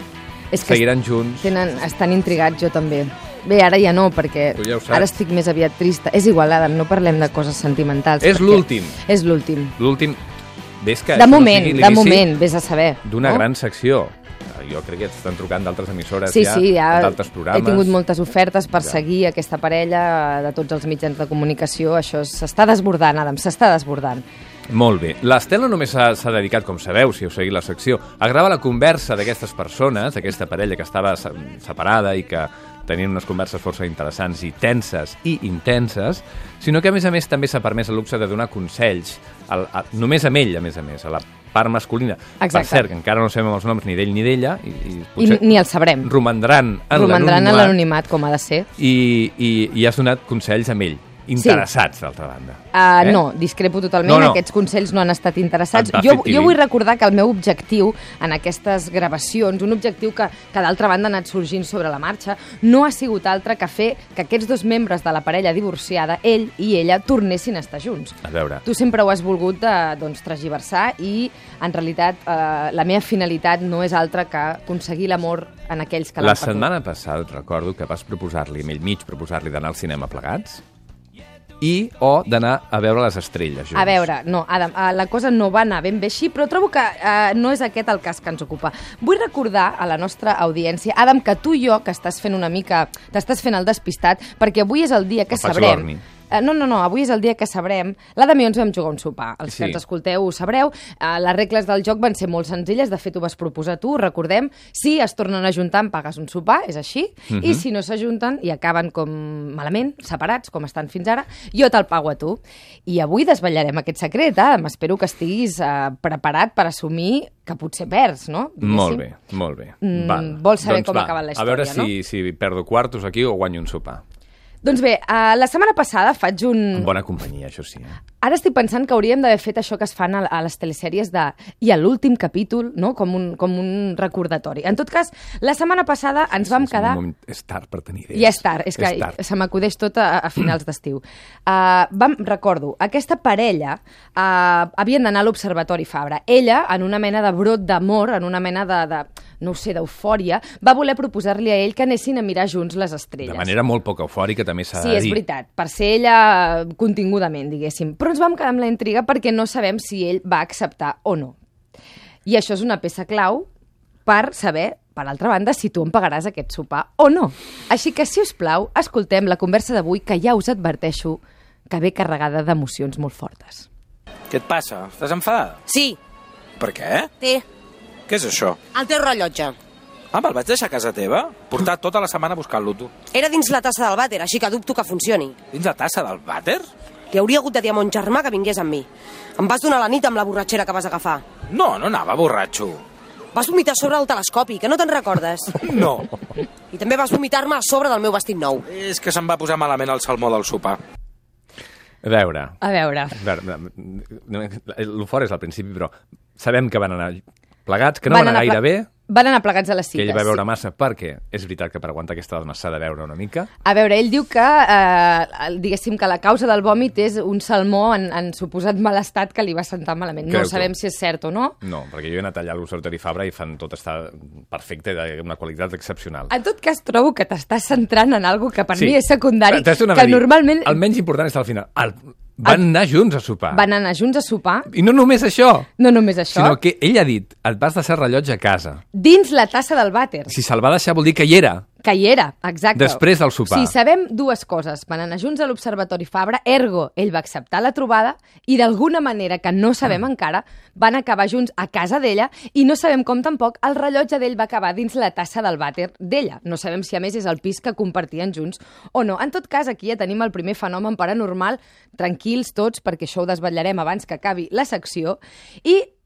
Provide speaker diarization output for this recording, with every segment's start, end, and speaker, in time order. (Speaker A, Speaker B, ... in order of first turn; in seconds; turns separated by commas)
Speaker A: 0.5-0.9, Speaker B: 0.6-1.5, Speaker A: 1.4-9.8, Speaker B: 4.5-5.1, Speaker B: 8.2-9.0, Speaker B: 9.8-10.2, Speaker B: 10.8-12.3, Speaker A: 11.2-13.4, Speaker B: 13.0-18.0, Speaker A: 16.2-24.2, Speaker B: 24.7-47.8, Speaker A: 42.4-42.9, Speaker A: 45.2-46.1, Speaker A: 46.9-48.7, Speaker B: 48.8-53.2, Speaker A: 51.4-51.7, Speaker A: 52.7-76.7, Speaker B: 54.0-54.4, Speaker B: 55.7-56.6, Speaker B: 68.2-68.6, Speaker B: 76.2-80.6, Speaker B: 81.6-84.0, Speaker A: 83.8-119.0, Speaker B: 95.3-96.0, Speaker B: 99.5-99.8, Speaker B: 107.3-107.6, Speaker B: 118.6-124.0, Speaker A: 119.8-121.9, Speaker A: 124.6-126.9, Speaker B: 126.8-128.0, Speaker A: 128.2-137.0, Speaker B: 136.3-139.2, Speaker A: 138.1-153.5, Speaker B: 153.2-155.2, Speaker A: 154.8-161.4, Speaker A: 162.3-163.5, Speaker A: 164.1-173.7, Speaker C: 174.3-175.6, Speaker D: 175.7-176.0, Speaker C: 176.6-177.1, Speaker C: 178.1-178.6, Speaker D: 178.7-179.6, Speaker C: 180.1-182.9, Speaker D: 183.1-185.4, Speaker C: 185.5-186.6, Speaker D: 187.1-191.2, Speaker C: 191.5-192.8, Speaker D: 193.3-195.6, Speaker C: 195.6-196.2, Speaker D: 196.7-198.7, Speaker C: 198.7-200.8, Speaker B: 202.0-202.6, Speaker A: 202.6-203.2, Speaker B: 203.1-208.9, Speaker A: 208.1-210.4, Speaker B: 209.9-213.5, Speaker A: 213.6-221.6, Speaker B: 220.3-220.7, Speaker B: 221.6-226.3, Speaker A: 226.3-230.8, Speaker B: 228.8-233.6, Speaker A: 233.5-234.7, Speaker B: 234.7-235.7, Speaker A: 235.8-236.6, Speaker B: 236.3-238.8, Speaker A: 238.9-240.3, Speaker B: 240.3-241.7, Speaker A: 241.8-265.9, Speaker B: 242.8-243.7